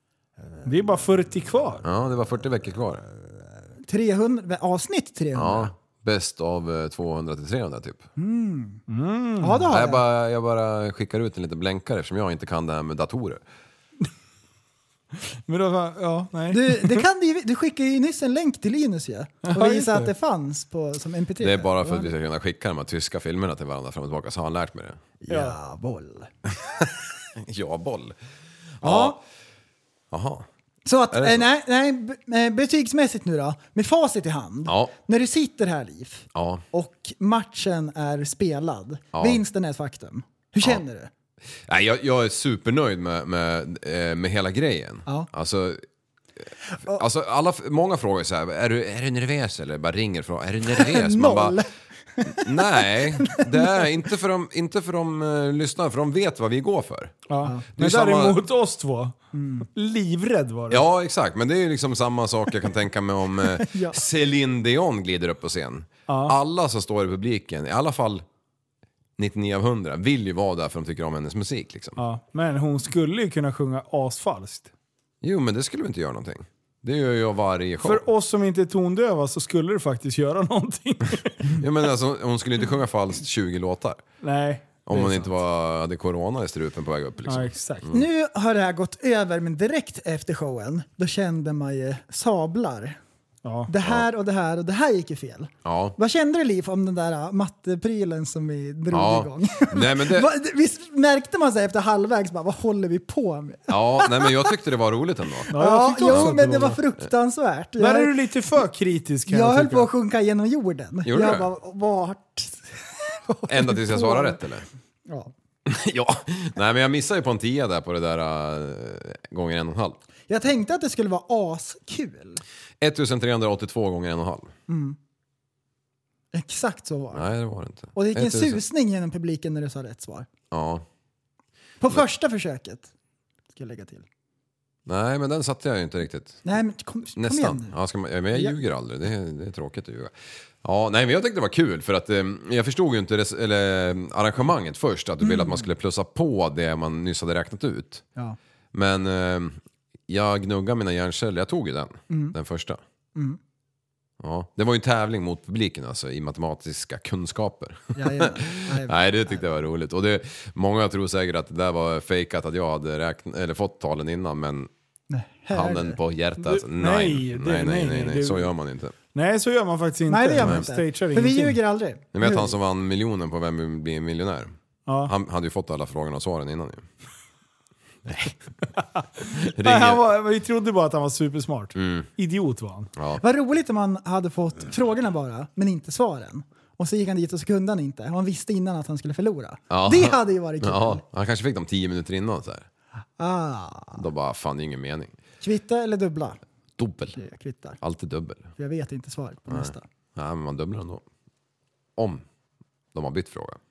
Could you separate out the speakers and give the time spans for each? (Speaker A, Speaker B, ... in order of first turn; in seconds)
Speaker A: 0.6-1.8, 8.9-9.7, 15.5-17.0, 19.5-20.1, 25.3-25.6, 28.8-29.1, 57.3-59.1, 59.7-60.8, 66.1-66.3, 72.0-74.7, 77.8-81.5, 84.2-85.3, 87.3-87.9, 93.4-93.7, 105.5-106.8, 107.8-109.9, 166.4-168.5, 169.1-171.6, 174.9-175.1, 179.6-182.9
Speaker B: 1.8-3.0, 5.3-8.0, 9.7-13.4, 21.4-25.0, 27.4-28.1, 28.8-29.2, 30.1-30.5, 31.1-31.5, 34.6-34.9, 36.3-36.6, 39.1-39.4, 41.7-45.8, 46.9-51.6, 52.3-57.2, 57.7-58.4, 60.7-68.2, 69.2-72.0, 75.2-78.0, 81.5-84.0, 84.8-88.0, 95.6-95.9, 98.9-100.3, 103.7-105.5, 106.1-106.3, 111.0-111.5, 113.5-114.7, 115.7-120.0, 122.8-124.5, 127.1-128.6, 130.5-130.8, 134.8-136.4, 137.2-148.0, 148.7-149.6, 150.1-152.8, 154.2-164.7, 165.5-168.9, 172.1-176.8, 178.1-178.3, 179.5-180.0, 181.7-182.1, 183.0-183.2, 189.7-192.7, 193.9-195.1, 196.8-197.2, 197.8-198.5, 199.5-201.0, 202.0-202.2, 202.9-203.6
Speaker C: 3.9-5.7, 8.2-8.8, 9.4-10.0, 16.5-22.1, 25.2-26.3, 30.9-41.1, 50.7-53.9, 59.3-59.6, 63.5-64.0, 87.9-93.0, 93.7-104.5, 105.5-108.1, 109.3-112.7, 113.3-114.4, 120.3-122.4, 124.7-125.0, 126.3-127.2, 127.9-130.3, 131.8-132.9, 133.5-134.1, 136.4-137.7, 145.2-145.7, 152.1-152.3, 157.9-159.4, 165.1-166.0, 170.1-172.5, 183.2-191.0, 193.2-194.0, 195.4-196.4, 197.1-197.8, 198.6-199.8